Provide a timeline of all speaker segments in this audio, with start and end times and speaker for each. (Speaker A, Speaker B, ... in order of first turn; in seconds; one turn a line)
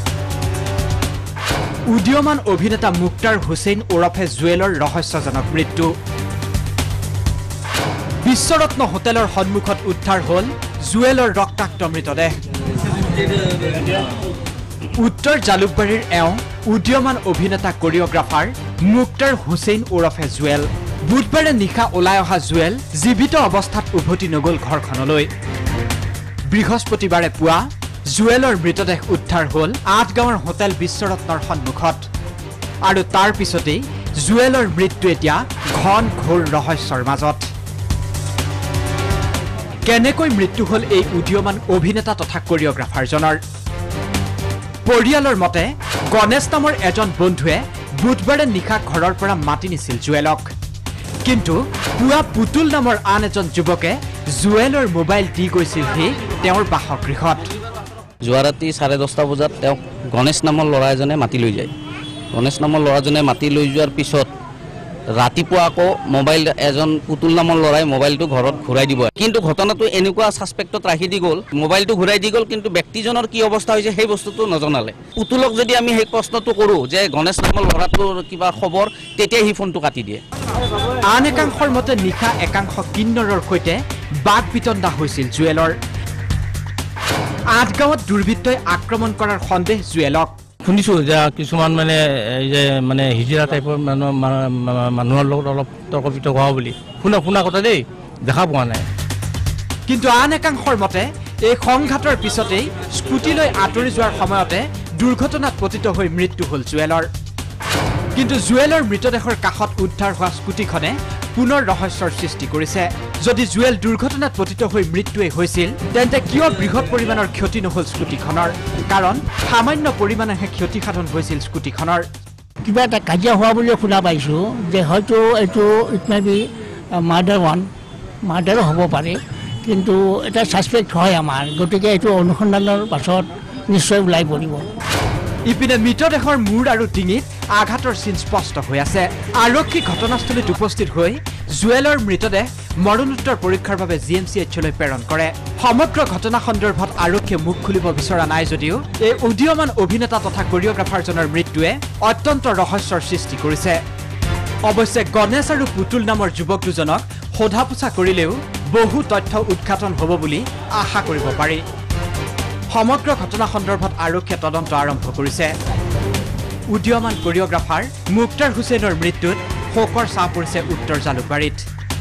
Speaker A: 1.9-5.9
Speaker A: 8.2-12.3
Speaker A: 15.0-25.3
Speaker A: 26.5-32.0
Speaker A: 32.8-37.5
Speaker A: 39.9-43.4
Speaker A: 44.9-50.5
Speaker A: 51.2-57.5
Speaker B: 58.2-61.7
Speaker B: 62.3-64.3
Speaker B: 65.2-80.2
Speaker A: 81.1-85.8
Speaker A: 87.5-90.4
Speaker C: 90.7-98.8
Speaker A: 99.9-107.1
Speaker A: 108.2-122.1
Speaker D: 122.7-126.4
Speaker D: 127.1-127.7
Speaker D: 128.3-134.7
Speaker A: 135.5-153.8
Speaker A: 154.7-161.6
Speaker A: 162.7-165.5
Speaker A: 166.7-171.7